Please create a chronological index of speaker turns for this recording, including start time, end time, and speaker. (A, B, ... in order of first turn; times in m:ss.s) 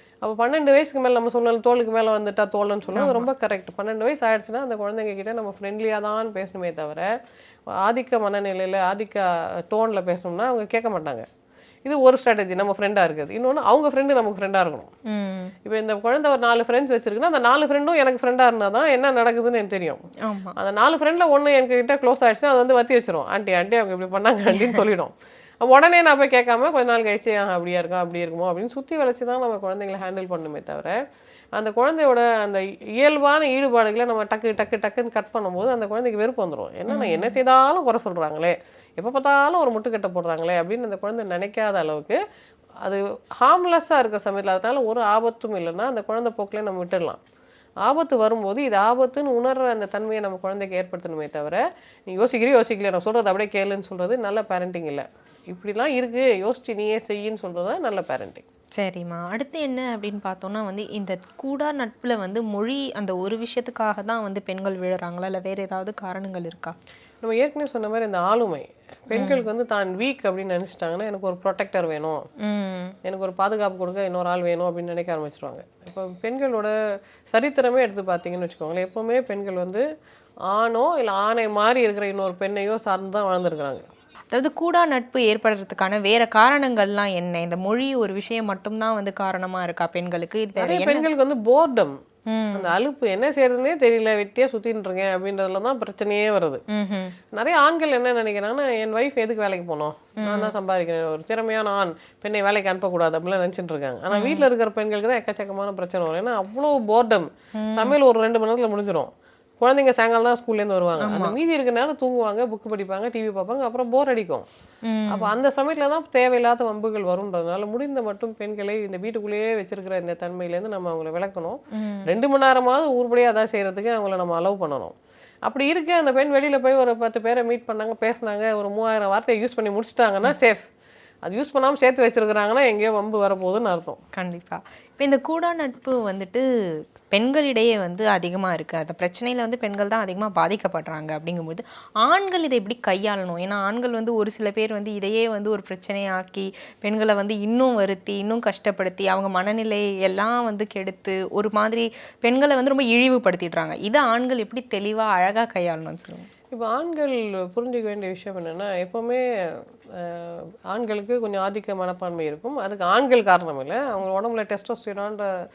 0:00.2-0:07.1 A
0:02.9-0:03.3 B
0:07.7-0:11.2 A
0:11.8-0:14.9 A
0:15.1-0:15.5 B
0:15.6-0:20.0 A
0:20.2-0:20.5 B
0:20.6-0:31.0 A
0:24.5-0:24.8 B
0:31.5-0:42.2 A
0:36.9-0:37.3 B
0:42.8-0:47.2 A
0:47.8-0:58.4 A
0:58.8-1:06.7 B
1:07.2-1:12.2 A
1:09.1-1:09.4 B
1:12.4-1:12.9 B
1:13.0-1:16.7 A
1:17.3-1:19.8 A
1:20.5-1:23.9 A
1:24.3-1:31.1 B
1:30.6-1:31.9 A
1:32.3-1:32.7 B
1:32.5-1:36.6 A
1:36.7-1:37.2 B
1:37.3-1:54.4 A
1:40.2-1:40.5 B
1:44.1-1:44.5 B
1:47.6-1:48.0 B
1:51.0-1:51.3 B
1:54.8-1:55.3 B
1:55.1-2:04.9 A
2:01.7-2:02.1 B
2:05.4-2:10.7 A
2:11.2-2:14.0 A
2:14.1-2:36.3 B
2:36.5-2:39.2 A
2:40.0-2:45.3 A